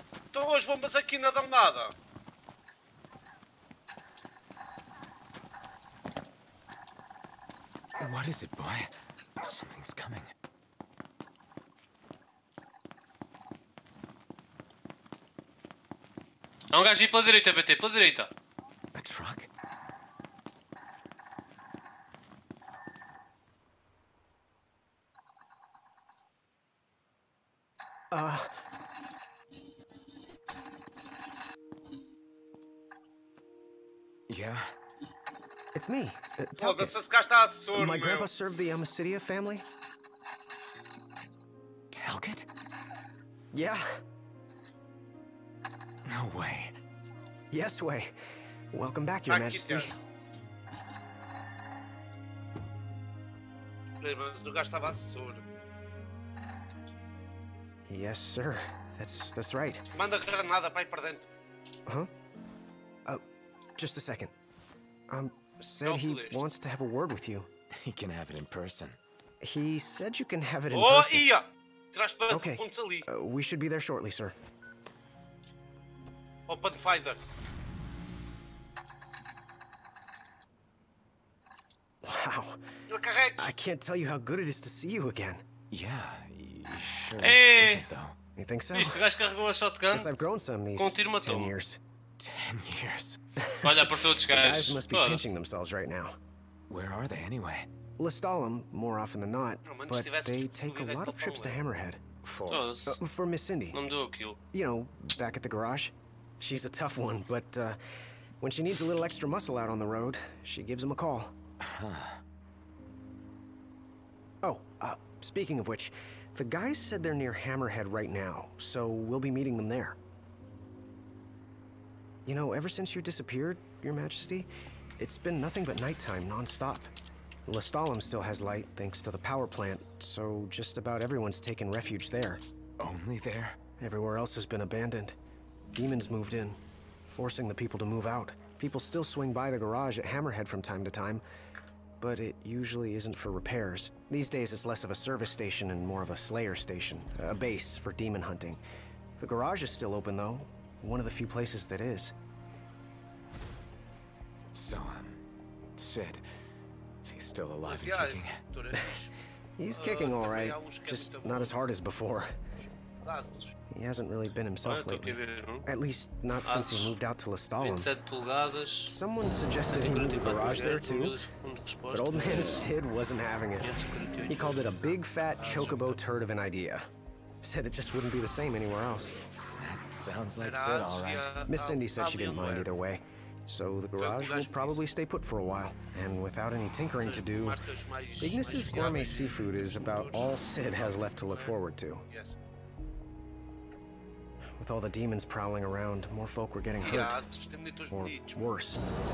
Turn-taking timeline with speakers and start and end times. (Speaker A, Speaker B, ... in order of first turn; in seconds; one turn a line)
Speaker A: 0.3-1.9
Speaker B: 8.0-10.3
Speaker C: 16.7-18.3
Speaker B: 18.9-19.5
Speaker D: 28.1-28.5
Speaker B: 34.3-34.7
Speaker D: 35.7-37.0
Speaker A: 36.6-38.3
Speaker D: 37.7-39.6
Speaker B: 41.9-42.5
Speaker D: 43.5-43.9
Speaker B: 46.0-46.8
Speaker D: 47.5-48.1
Speaker D: 48.7-49.9
Speaker A: 49.3-49.9
Speaker A: 54.0-55.4
Speaker D: 57.9-59.8
Speaker A: 59.9-61.3
Speaker D: 63.8-64.3
Speaker D: 65.1-67.5
Speaker A: 65.8-66.5
Speaker B: 67.8-69.0
Speaker D: 69.4-71.3
Speaker A: 70.7-73.1
Speaker D: 72.3-74.3
Speaker A: 76.5-77.2
Speaker D: 82.0-82.6
Speaker A: 82.9-83.5
Speaker D: 83.4-85.4
Speaker B: 85.7-88.2
Speaker C: 87.2-87.9
Speaker D: 88.4-89.0
Speaker C: 88.7-90.1
Speaker D: 89.9-91.8
Speaker C: 90.8-91.5
Speaker B: 92.2-93.2
Speaker D: 93.4-96.2
Speaker C: 93.6-95.4
Speaker B: 96.7-97.7
Speaker D: 98.0-103.8
Speaker A: 99.7-101.6
Speaker B: 102.3-102.6
Speaker C: 102.5-103.0
Speaker C: 103.7-104.4
Speaker D: 104.5-107.8
Speaker D: 108.4-111.3
Speaker B: 111.6-112.2
Speaker D: 114.4-120.0
Speaker D: 122.3-124.5
Speaker D: 125.0-126.9
Speaker D: 127.5-132.4
Speaker B: 132.8-133.6
Speaker D: 133.8-135.2
Speaker D: 135.8-141.2
Speaker D: 142.0-148.6
Speaker D: 149.2-152.1
Speaker B: 154.5-155.2
Speaker B: 155.8-156.2
Speaker B: 157.0-158.4
Speaker A: 157.7-159.1
Speaker D: 159.6-162.3
Speaker A: 159.7-161.5
Speaker A: 162.6-163.5
Speaker D: 163.7-167.9
Speaker C: 164.7-165.7
Speaker C: 166.4-167.0
Speaker C: 167.6-169.0
Speaker D: 168.9-171.2
Speaker C: 169.7-172.7
Speaker D: 171.9-176.8
Speaker C: 173.6-176.0
Speaker A: 175.4-175.7
Speaker D: 177.4-179.2
Speaker B: 179.6-181.4
Speaker A: 180.4-182.7
Speaker D: 181.4-187.6
Speaker A: 184.0-184.8
Speaker A: 187.0-191.6
Speaker D: 188.2-192.0
Speaker A: 192.1-192.4
Speaker D: 194.6-197.2
Speaker A: 196.8-198.4
Speaker D: 197.9-198.8